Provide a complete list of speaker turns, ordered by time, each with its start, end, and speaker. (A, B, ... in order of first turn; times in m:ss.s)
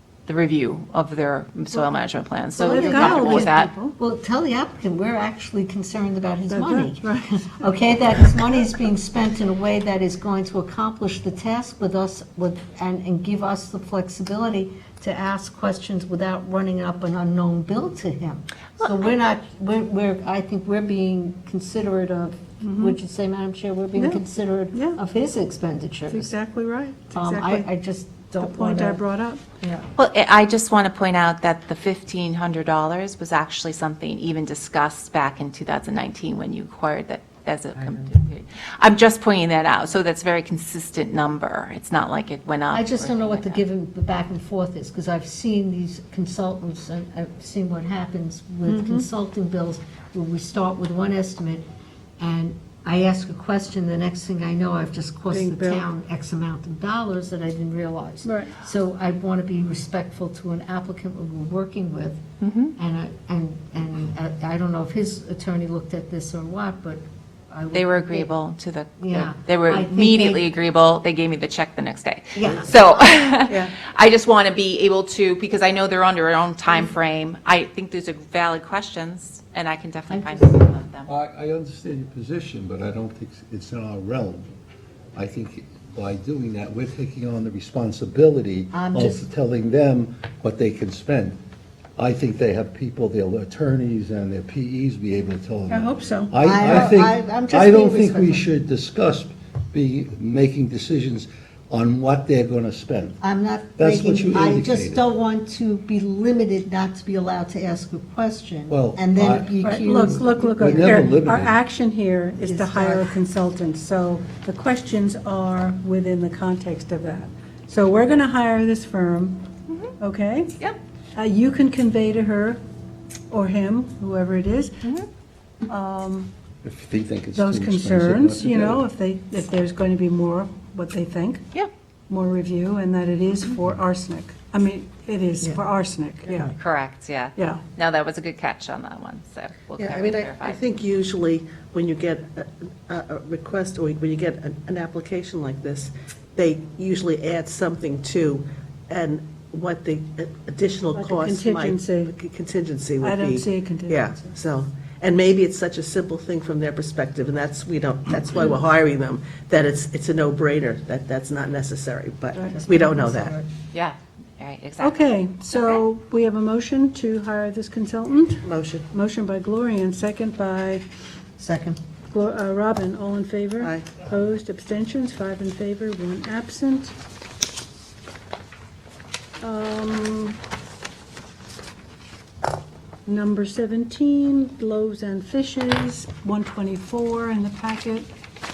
0:00.3-0:03.7 A
0:02.6-0:04.0 B
0:02.6-0:26.3 C
0:06.5-0:07.6 B
0:22.6-0:23.0 B
0:24.0-0:25.0 B
0:26.1-0:27.7 B
0:27.1-0:29.0 C
0:28.4-0:29.4 B
0:29.6-0:29.9 C
0:30.0-0:43.6 A
0:42.7-0:51.6 C
0:48.6-0:49.1 B
0:52.2-1:02.2 C
0:55.3-0:55.9 B
0:58.2-0:58.6 B
1:02.4-1:02.7 A
1:02.8-1:08.3 C
1:07.7-1:21.1 A
1:09.0-1:10.4 C
1:12.3-1:12.8 C
1:13.5-1:13.7 B
1:20.1-1:20.6 C
1:21.1-1:24.5 D
1:25.2-1:31.4 D
1:28.7-1:29.3 C
1:32.0-1:43.2 D
1:35.7-1:36.3 B
1:36.4-1:38.5 C
1:43.2-1:51.2 C
1:43.8-1:45.0 D
1:48.7-1:49.6 D
1:49.6-1:59.5 B
1:50.6-1:51.6 D
1:52.4-1:53.2 C
2:00.0-2:00.5 B
2:01.1-2:02.6 B
2:03.3-2:04.8 B
2:05.7-2:06.3 B
2:06.6-2:08.9 D
2:07.3-2:11.4 B
2:12.1-2:16.5 B
2:16.6-2:20.6 A
2:17.4-2:17.6 B
2:19.8-2:43.3 E
2:30.9-2:32.1 B
2:33.0-2:34.3 B
2:42.3-2:42.6 B
2:42.5-2:43.5 C
2:43.7-2:45.0 A
2:44.8-2:50.8 B
2:45.5-2:45.8 A
2:48.4-2:48.9 E
2:51.4-2:51.8 C
2:52.1-2:56.9 B
2:53.6-2:53.9 E
2:59.4-3:00.4 B
3:03.0-3:08.1 B